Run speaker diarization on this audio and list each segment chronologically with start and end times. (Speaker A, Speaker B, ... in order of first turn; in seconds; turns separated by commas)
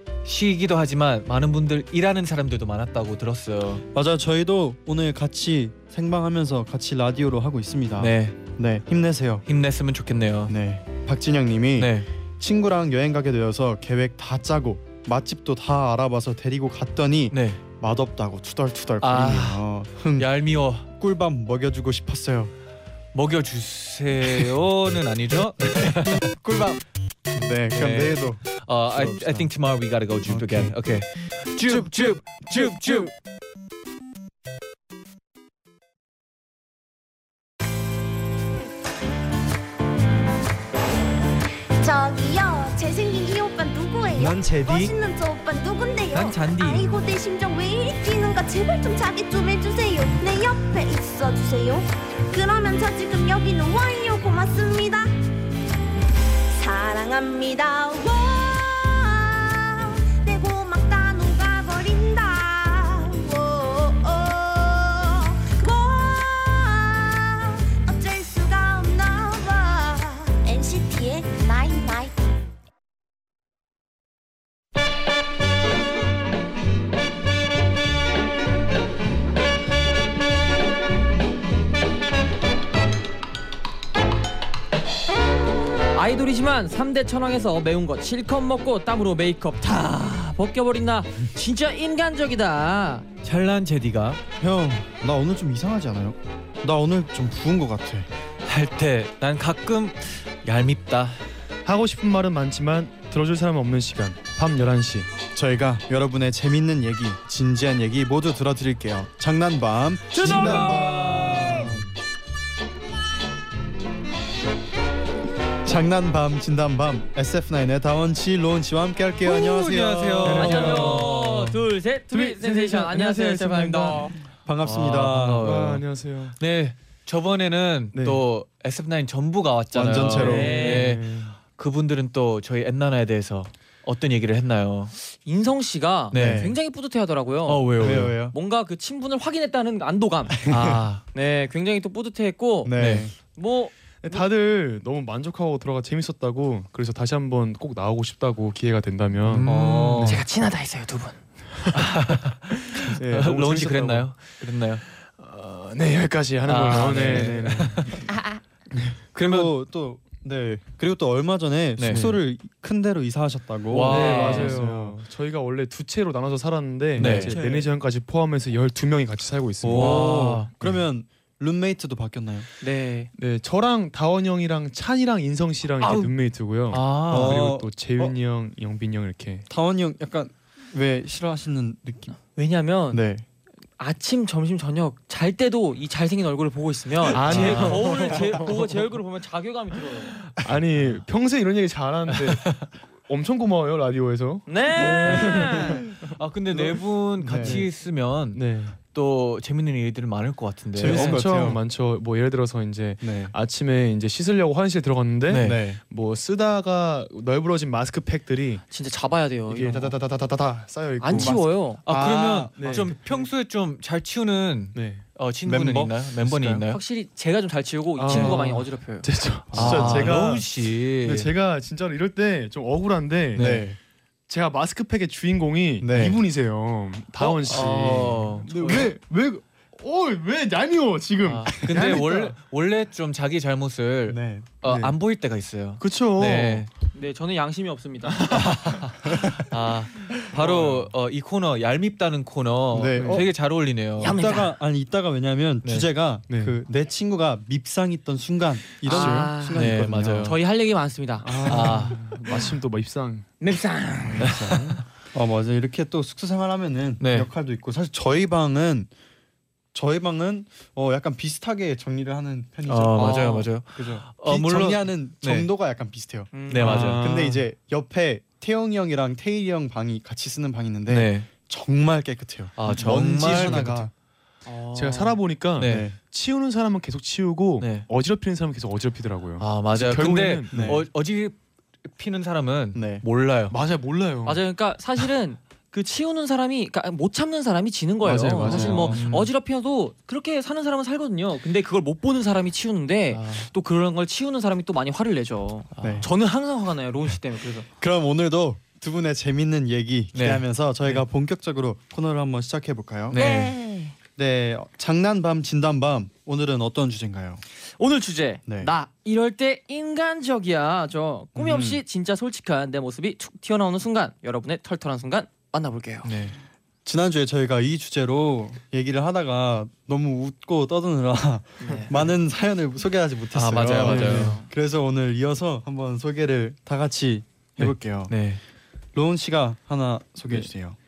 Speaker A: 0.2-3.8, Speaker B: 3.9-9.4, Speaker A: 8.0-8.4, Speaker A: 9.5-10.5, Speaker B: 10.5-20.3, Speaker A: 11.8-12.1, Speaker A: 17.3-17.6, Speaker A: 19.0-20.9, Speaker B: 20.9-22.5, Speaker A: 23.1-26.3, Speaker B: 25.6-29.5, Speaker A: 27.7-33.1, Speaker B: 30.3-30.7, Speaker B: 31.6-32.1, Speaker C: 41.8-55.1, Speaker B: 44.1-44.9, Speaker A: 46.1-46.9, Speaker C: 56.5-72.3, Speaker D: 85.9-93.1, Speaker A: 93.2-94.2, Speaker B: 94.4-98.1, Speaker A: 98.5-101.2, Speaker E: 101.7-105.1, Speaker B: 105.3-111.8, Speaker A: 110.1-111.8, Speaker E: 110.3-111.0, Speaker B: 115.6-120.7, Speaker A: 119.2-121.2, Speaker E: 120.2-124.1, Speaker D: 120.4-124.1, Speaker B: 124.5-125.5, Speaker A: 124.6-125.8, Speaker E: 125.4-126.3, Speaker A: 126.4-134.9, Speaker E: 127.9-128.2, Speaker B: 129.7-130.6, Speaker E: 130.1-131.3, Speaker D: 130.2-130.9, Speaker D: 135.0-140.4, Speaker A: 136.1-136.5, Speaker B: 136.1-136.5, Speaker A: 137.4-138.2, Speaker B: 137.8-138.3, Speaker B: 140.3-140.8, Speaker A: 140.5-141.0, Speaker D: 141.1-142.8, Speaker B: 142.6-143.1, Speaker A: 142.8-143.1, Speaker D: 143.3-144.2, Speaker E: 144.0-150.2, Speaker A: 149.2-150.1, Speaker B: 149.4-150.2, Speaker D: 150.1-151.2, Speaker A: 151.7-154.8, Speaker E: 152.7-154.3, Speaker E: 155.0-158.0, Speaker A: 156.4-158.1, Speaker E: 158.7-159.0, Speaker A: 159.1-159.5, Speaker B: 159.1-165.0, Speaker A: 161.8-162.2, Speaker A: 163.7-164.6, Speaker E: 163.8-170.7, Speaker A: 167.0-167.4, Speaker B: 167.0-167.4, Speaker B: 169.6-172.5, Speaker A: 169.7-170.5, Speaker D: 172.6-173.1, Speaker E: 173.2-179.5, Speaker D: 175.8-176.1, Speaker A: 176.7-177.5, Speaker B: 177.1-178.1, Speaker B: 179.5-182.1, Speaker D: 182.3-183.0, Speaker B: 182.9-183.2, Speaker D: 183.8-190.2, Speaker E: 187.1-188.8, Speaker A: 187.2-187.9, Speaker E: 190.4-196.1, Speaker A: 192.1-192.7, Speaker D: 194.5-195.8, Speaker A: 195.0-201.2, Speaker B: 197.2-197.6, Speaker E: 197.2-197.7, Speaker E: 198.3-198.8, Speaker B: 200.8-201.6, Speaker E: 200.8-208.6, Speaker B: 203.0-203.3, Speaker A: 205.3-205.6, Speaker B: 205.3-205.8, Speaker D: 208.7-210.0, Speaker E: 209.5-211.5, Speaker D: 211.0-211.8, Speaker A: 211.8-216.8, Speaker B: 211.8-212.9, Speaker E: 212.6-213.1, Speaker E: 214.7-215.1, Speaker B: 215.4-216.6, Speaker D: 216.7-219.1, Speaker E: 217.9-223.6, Speaker B: 219.5-220.1, Speaker A: 219.5-221.3, Speaker A: 223.3-223.7, Speaker B: 223.3-223.8, Speaker E: 224.3-232.3, Speaker B: 225.8-226.2, Speaker A: 227.2-228.9, Speaker D: 228.5-228.8, Speaker A: 231.2-236.7, Speaker B: 234.1-234.6, Speaker E: 234.6-234.9, Speaker E: 235.8-236.7, Speaker D: 236.9-238.4, Speaker E: 238.2-238.9, Speaker A: 238.3-244.2, Speaker B: 242.7-243.3, Speaker E: 242.9-243.2, Speaker B: 244.0-250.3, Speaker D: 244.0-244.5, Speaker E: 246.3-246.6, Speaker D: 248.8-251.8, Speaker E: 248.9-249.3, Speaker A: 249.4-250.3, Speaker E: 251.2-253.3, Speaker A: 251.5-252.0, Speaker B: 251.6-251.9, Speaker D: 253.4-254.3, Speaker E: 254.2-254.8, Speaker B: 254.2-258.9, Speaker A: 254.2-254.5, Speaker A: 257.0-257.3, Speaker B: 259.7-273.9, Speaker A: 262.7-265.5, Speaker D: 263.0-263.5, Speaker D: 266.3-266.9, Speaker A: 266.5-267.0, Speaker E: 266.6-267.4, Speaker A: 270.9-271.3, Speaker A: 272.6-273.9, Speaker E: 273.3-273.8, Speaker D: 274.4-275.2, Speaker E: 274.7-280.8, Speaker A: 275.6-275.9, Speaker B: 275.6-276.0, Speaker A: 277.6-277.9, Speaker A: 279.4-283.5, Speaker B: 280.5-280.8, Speaker B: 282.7-283.0, Speaker E: 283.5-284.4, Speaker D: 284.2-297.7, Speaker E: 288.0-289.0, Speaker A: 288.4-289.2, Speaker B: 288.4-289.0, Speaker A: 293.1-293.5, Speaker A: 295.8-296.0, Speaker B: 295.8-296.1, Speaker B: 297.8-303.5, Speaker A: 300.1-301.0, Speaker A: 303.1-303.5, Speaker D: 303.1-303.9, Speaker B: 304.1-307.4, Speaker D: 307.8-316.1, Speaker B: 308.5-308.7, Speaker B: 311.4-311.8, Speaker A: 316.0-316.4, Speaker B: 316.8-328.1, Speaker D: 321.6-322.1, Speaker A: 323.3-324.4, Speaker D: 323.8-324.5, Speaker A: 327.6-328.4, Speaker B: 328.9-330.8